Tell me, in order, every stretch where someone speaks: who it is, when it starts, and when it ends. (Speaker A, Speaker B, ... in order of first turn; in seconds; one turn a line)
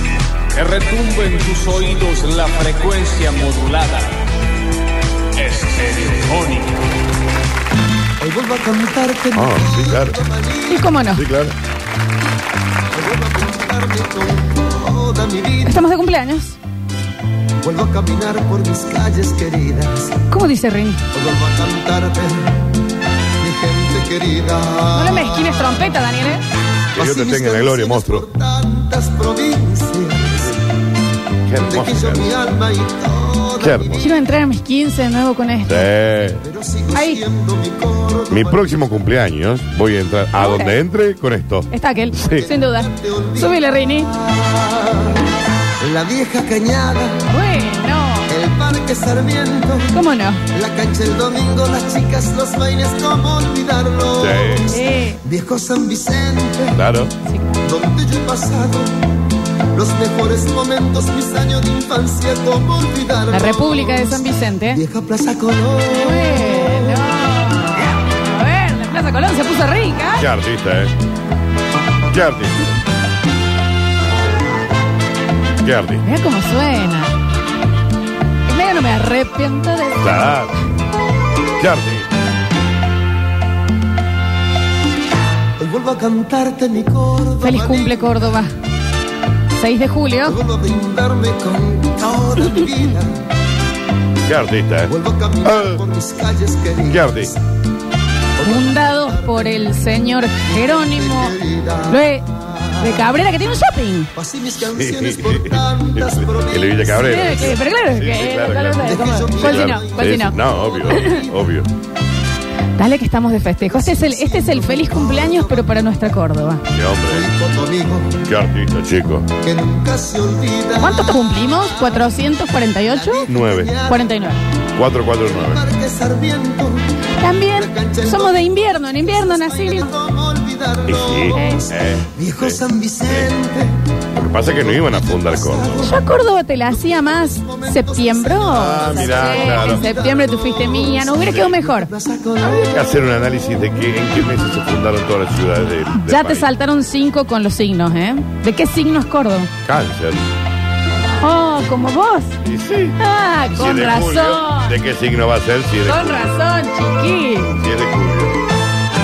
Speaker A: 0.5-4.2
Speaker A: 5.3-6.9
Speaker B: 8.2-11.0
Speaker C: 9.3-10.2
Speaker D: 10.7-11.2
Speaker C: 11.1-11.5
Speaker B: 12.9-15.8
Speaker D: 15.6-16.6
Speaker B: 17.6-20.2
Speaker D: 20.3-21.0
Speaker B: 21.1-22.6
Speaker B: 23.4-25.9
Speaker D: 24.9-26.4
Speaker C: 26.9-28.2
Speaker B: 26.9-30.6
Speaker C: 31.4-32.3
Speaker B: 31.5-34.2
Speaker C: 33.6-34.0
Speaker D: 34.0-35.9
Speaker C: 35.7-36.4
Speaker B: 36.0-38.8
Speaker D: 36.9-37.2
Speaker C: 38.3-42.5
Speaker D: 40.3-40.8
Speaker D: 41.7-44.1
Speaker B: 42.3-43.6
Speaker B: 44.2-45.2
Speaker B: 45.8-47.3
Speaker D: 47.3-48.3
Speaker B: 48.3-49.9
Speaker D: 49.9-50.4
Speaker B: 50.5-56.8
Speaker C: 54.1-54.7
Speaker D: 54.7-55.2
Speaker C: 56.7-57.1
Speaker D: 57.2-57.6
Speaker B: 57.6-59.2
Speaker B: 59.7-64.2
Speaker D: 63.3-64.8
Speaker B: 64.7-67.2
Speaker D: 66.0-70.3
Speaker C: 70.2-70.9
Speaker C: 72.1-72.7
Speaker C: 75.6-76.0
Speaker D: 76.0-77.1
Speaker D: 78.5-80.2
Speaker C: 80.0-80.5
Speaker C: 81.6-82.1
Speaker B: 85.6-88.2
Speaker D: 87.4-88.5
Speaker D: 89.5-90.4
Speaker B: 90.2-93.1
Speaker C: 94.2-95.8
Speaker B: 94.9-97.3
Speaker C: 96.9-97.3
Speaker B: 98.3-102.9
Speaker D: 98.4-101.3
Speaker D: 101.9-102.2
Speaker D: 102.8-104.1
Speaker B: 104.1-107.6
Speaker C: 104.6-111.7
Speaker D: 107.0-111.2
Speaker B: 108.8-111.4
Speaker D: 112.8-116.7
Speaker B: 113.7-115.9
Speaker C: 116.7-117.3
Speaker B: 117.0-118.2
Speaker C: 118.2-119.3
Speaker B: 119.4-122.1
Speaker D: 120.8-123.3
Speaker B: 122.8-124.1
Speaker C: 123.3-123.7
Speaker D: 123.8-124.4
Speaker C: 124.7-125.6
Speaker B: 125.2-126.9
Speaker D: 127.2-129.9
Speaker B: 127.5-133.8
Speaker C: 130.8-133.3
Speaker D: 131.3-131.6
Speaker C: 134.1-135.9
Speaker B: 134.4-142.7
Speaker D: 135.8-141.9
Speaker C: 138.5-139.9
Speaker C: 142.4-146.5
Speaker D: 145.9-149.5
Speaker C: 149.6-150.3
Speaker D: 151.2-152.4
Speaker C: 152.4-153.0
Speaker D: 153.0-154.8
Speaker C: 153.5-156.3
Speaker D: 155.8-157.6
Speaker C: 157.6-158.4